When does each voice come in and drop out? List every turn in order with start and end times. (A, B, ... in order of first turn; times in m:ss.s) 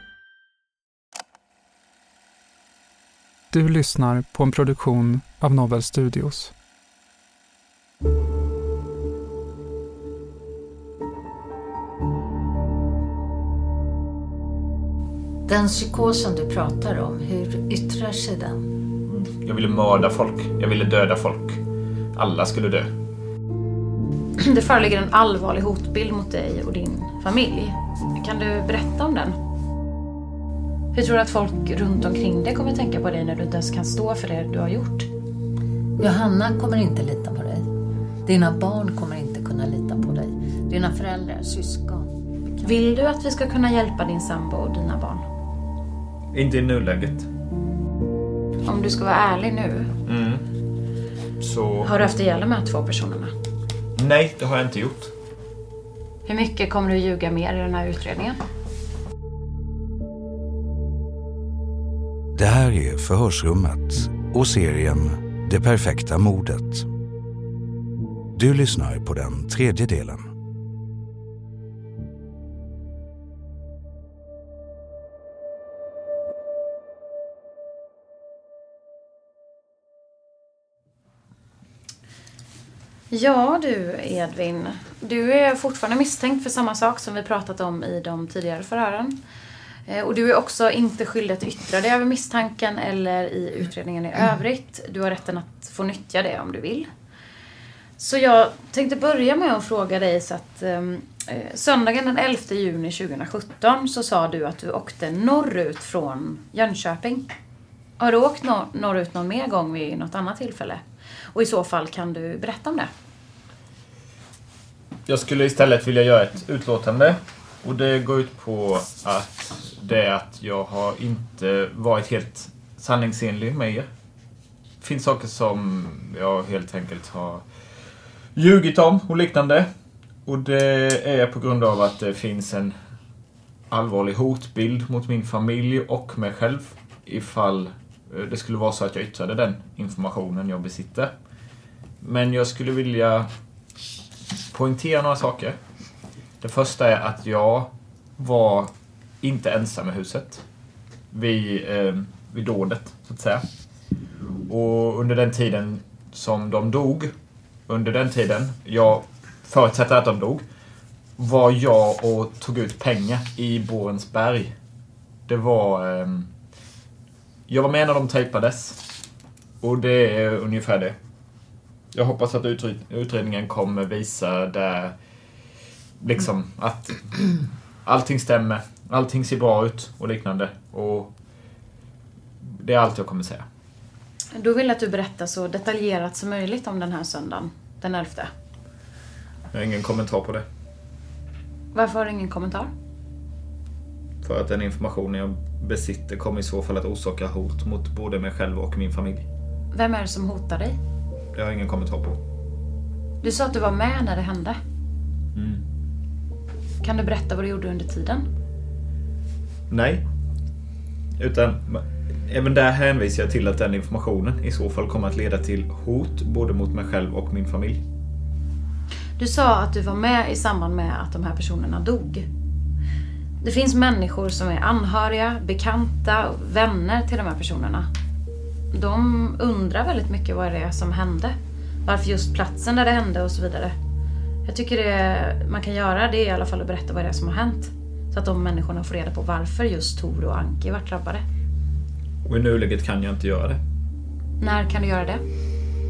0:03.5-0:06.5 A
0:15.5-0:18.7 B
0:19.0-0:21.6 C
0:22.1-0:22.9 C
0:24.4-0:29.4 D
0:30.9-0:35.1 D
0:36.0-0:37.7 B
0:38.2-0:42.7 B
0:42.6-0:45.2 D
0:46.3-0:47.3 C
0:48.6-0:49.9 D
0:50.0-0:50.4 C
0:51.4-0:51.9 C
0:51.8-0:53.3 D
0:54.0-0:55.1 C
0:56.2-0:58.4 D
1:02.3-1:06.9 E
1:08.3-1:10.3 E
1:23.1-1:29.1 D
1:29.9-1:36.9 D
1:38.0-1:47.3 D
1:48.0-1:50.8 D
1:51.3-1:52.9 D
1:55.1-2:03.9 C
2:04.8-2:07.4 C
2:08.4-2:09.7 C
2:10.2-2:12.8 C
2:13.7-2:21.1 C
2:22.0-2:23.3 C
2:24.5-2:25.6 C
2:26.4-2:30.4 C
2:31.1-2:33.4 C
2:34.5-2:37.1 C
2:37.7-2:40.4 C
2:41.2-2:44.5 C
2:45.3-2:46.3 C
2:47.5-2:48.8 C
2:49.6-2:51.0 C
2:51.9-2:54.9 C
2:56.0-3:01.1 C
3:02.5-3:03.4 C
3:04.3-3:08.3 D
3:09.5-3:10.4 C
3:11.7-3:12.7 D
3:14.2-3:19.2 C
3:19.7-3:20.8 D
3:21.3-3:22.2 C
3:23.2-3:24.6 D
3:25.3-3:25.6 C
3:26.8-3:28.3 D
3:29.7-3:30.0 C
3:31.2-3:37.8 C
3:39.2-3:42.3 D
3:43.4-3:47.9 D
3:48.7-3:53.7 D
3:54.5-4:01.2 D
4:02.3-4:03.6 C
4:04.4-4:05.2 D